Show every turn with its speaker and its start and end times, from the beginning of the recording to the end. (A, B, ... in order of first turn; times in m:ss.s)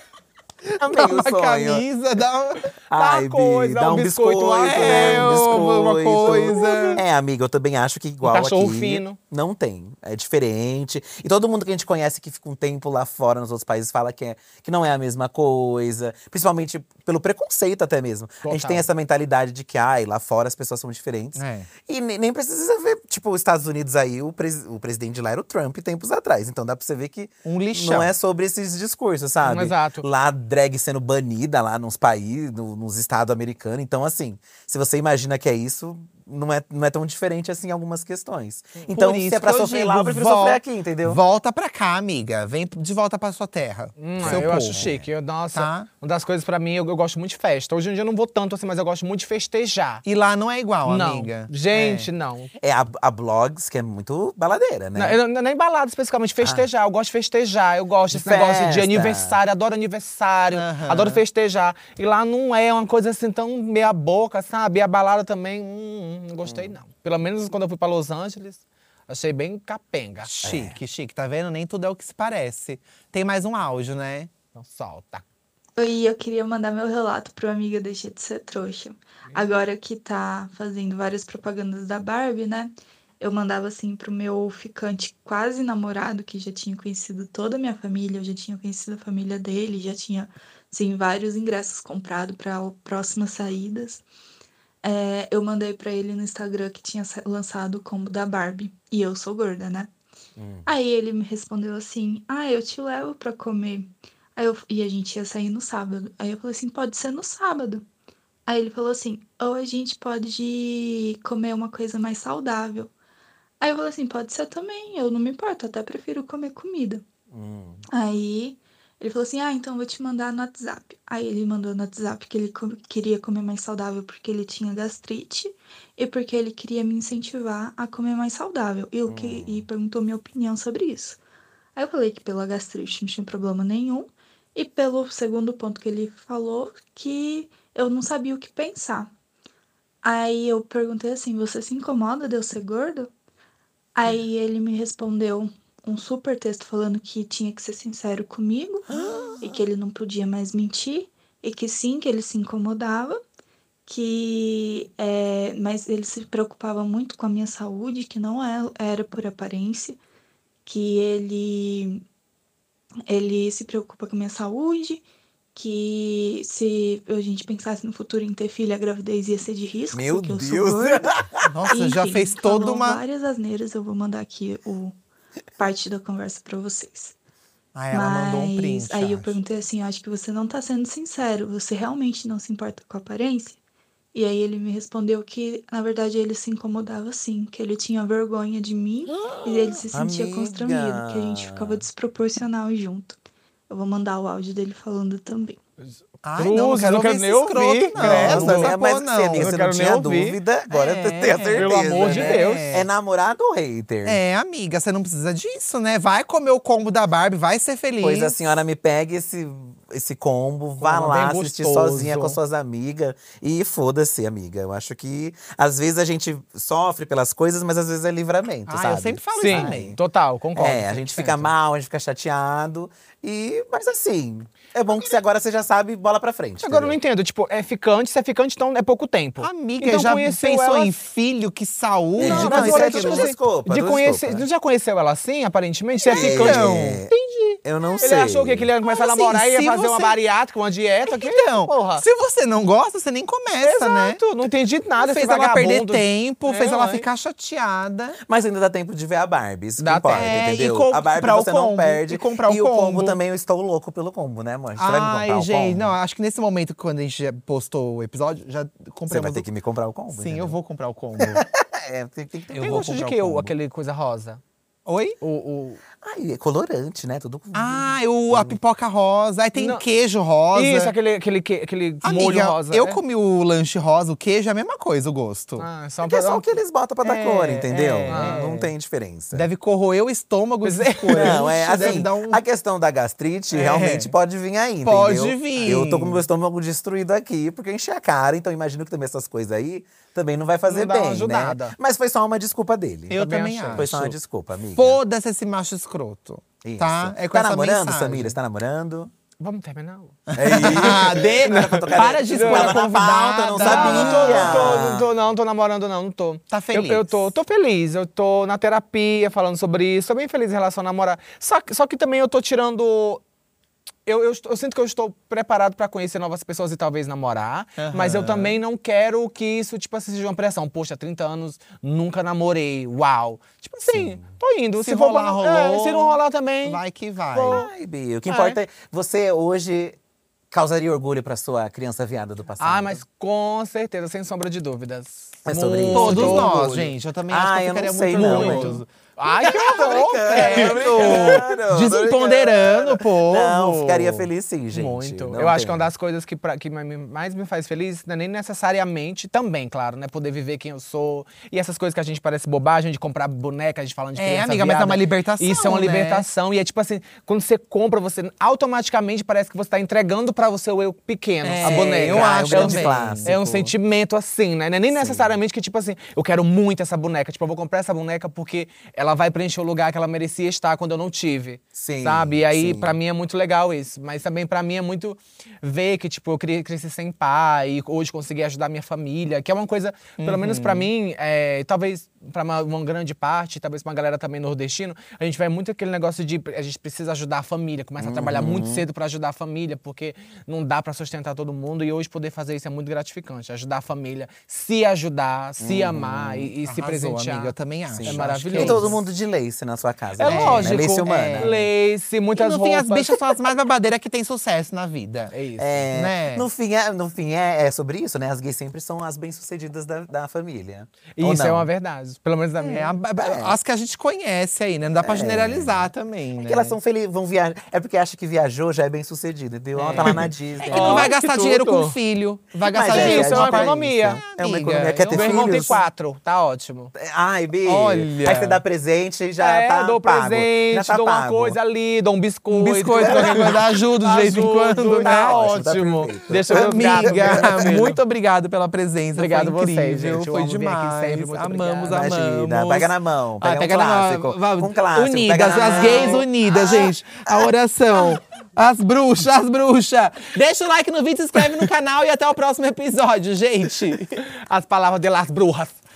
0:00.8-0:01.8 A
0:00.8-0:02.7 B
0:02.9-0:41.2 A
0:02.9-0:05.9 C
0:04.6-0:07.0 B
0:06.5-0:07.0 C
0:08.2-0:09.2 C
0:18.4-0:18.8 C
0:21.3-0:21.7 B
0:27.4-0:28.1 B
0:29.4-0:30.0 C
0:38.9-0:44.9 B
0:44.0-0:50.0 C
0:44.2-0:45.1 A
0:45.5-0:45.9 B
0:50.0-0:52.1 B
0:50.8-0:52.5 C
0:52.6-0:55.2 A
0:55.0-1:10.3 C
0:56.4-0:56.6 A
0:58.1-0:59.4 A
1:00.5-1:01.2 B
1:06.4-1:06.8 A
1:10.2-1:14.3 B
1:10.4-1:10.8 A
1:14.5-1:15.2 C
1:15.8-1:34.0 D
1:34.8-1:39.9 D
1:40.4-1:40.7 A
1:40.6-1:47.8 D
1:48.4-1:52.9 D
1:53.6-1:57.0 D
1:57.3-1:57.8 A
1:57.9-2:11.2 D
2:09.1-2:09.7 A
2:11.7-2:19.1 D
2:20.0-2:23.1 D
2:23.9-2:33.2 D
2:28.9-2:29.4 B
2:33.8-2:40.0 D
2:40.6-2:42.0 D
2:43.0-2:51.1 D
2:49.9-2:51.4 A
2:51.4-2:53.0 B
2:51.7-2:55.0 D
2:55.6-2:57.1 D
2:57.7-2:59.4 B
2:57.9-3:03.6 D
3:04.1-3:15.6 D
3:09.9-3:11.8 A
3:15.8-3:18.7 C
3:16.2-3:19.5 B
3:17.9-3:24.2 A
3:19.4-3:20.4 C
3:20.7-3:22.9 B
3:21.3-3:22.7 C
3:24.0-3:28.3 B
3:28.0-3:40.0 A
3:30.8-3:32.4 C
3:38.7-3:39.9 B
3:39.3-3:41.5 C
3:40.5-3:47.0 A
3:46.6-3:50.9 C
3:49.4-3:53.3 B
3:52.2-4:02.0 C
3:52.2-3:54.5 A
3:56.0-3:57.0 B
3:56.1-3:57.1 A
3:57.6-3:58.7 A
3:58.9-4:00.2 B
4:01.1-4:04.2 B
4:03.6-4:07.1 C
4:05.0-4:08.2 B
4:08.3-4:16.0 A
4:09.8-4:11.0 C
4:10.1-4:13.2 B
4:14.8-4:19.4 B
4:19.1-4:20.6 A
4:20.1-4:21.4 B
4:21.2-4:23.5 A
4:22.5-4:22.9 B
4:22.6-4:24.4 C
4:24.8-4:25.2 B
4:25.2-4:25.8 C
4:26.0-4:28.6 A
4:27.5-4:30.9 B
4:29.5-4:29.8 C
4:30.5-4:33.0 C
4:32.0-4:35.7 B
4:35.6-4:36.5 C
4:36.0-4:39.5 A
4:37.0-4:38.7 B
4:38.1-4:38.5 C
4:39.3-4:42.4 B
4:40.6-4:41.9 C
4:41.1-4:55.0 A
4:43.5-4:44.1 B
4:44.8-4:46.2 B
4:50.7-4:51.8 C
4:53.1-4:54.0 B
4:53.1-4:54.2 C
4:54.7-4:58.4 B
4:56.6-4:59.1 A
4:59.4-5:02.9 C
5:00.3-5:04.8 B
5:00.4-5:05.1 A
5:03.6-5:13.2 C
5:06.5-5:07.2 B
5:14.0-5:26.8 C
5:17.8-5:18.6 B
5:23.9-5:24.2 A
5:24.8-5:27.7 B
5:27.3-5:27.7 C
5:27.5-5:30.0 A
5:28.3-5:28.6 B
5:30.5-5:33.0 A
5:32.6-5:36.8 C
5:35.4-5:38.8 A
5:35.9-5:43.6 B
5:38.1-5:41.4 C
5:39.4-5:45.9 A
5:43.5-6:39.0 C
5:54.2-5:56.2 B
6:01.4-6:03.4 B
6:01.6-6:03.7 A
6:04.9-6:05.4 A
6:11.8-6:13.0 A
6:20.2-6:20.9 B
6:28.0-6:28.8 A
6:35.6-6:36.5 A
6:36.6-6:39.0 B
6:37.9-6:41.6 A
6:40.2-6:43.3 C
6:40.3-6:41.5 B
6:42.4-6:45.3 B
6:45.3-6:45.8 C
6:45.6-6:51.7 A
6:45.9-6:46.4 B
6:51.2-6:52.9 C
6:52.6-6:56.8 B
6:53.2-6:53.6 A
6:55.0-7:01.2 A
6:59.7-7:02.0 C
7:00.0-7:05.8 B
7:02.6-7:05.8 A
7:02.9-7:04.2 C
7:05.1-7:06.9 C
7:07.0-7:11.6 A
7:07.6-7:08.6 B
7:09.4-7:18.0 C
7:12.5-7:15.4 B
7:12.9-7:13.6 A
7:14.9-7:17.9 A
7:16.5-7:34.2 B
7:19.2-7:22.0 C
7:21.9-7:27.5 A
7:25.6-7:26.2 C
7:34.3-7:35.8 C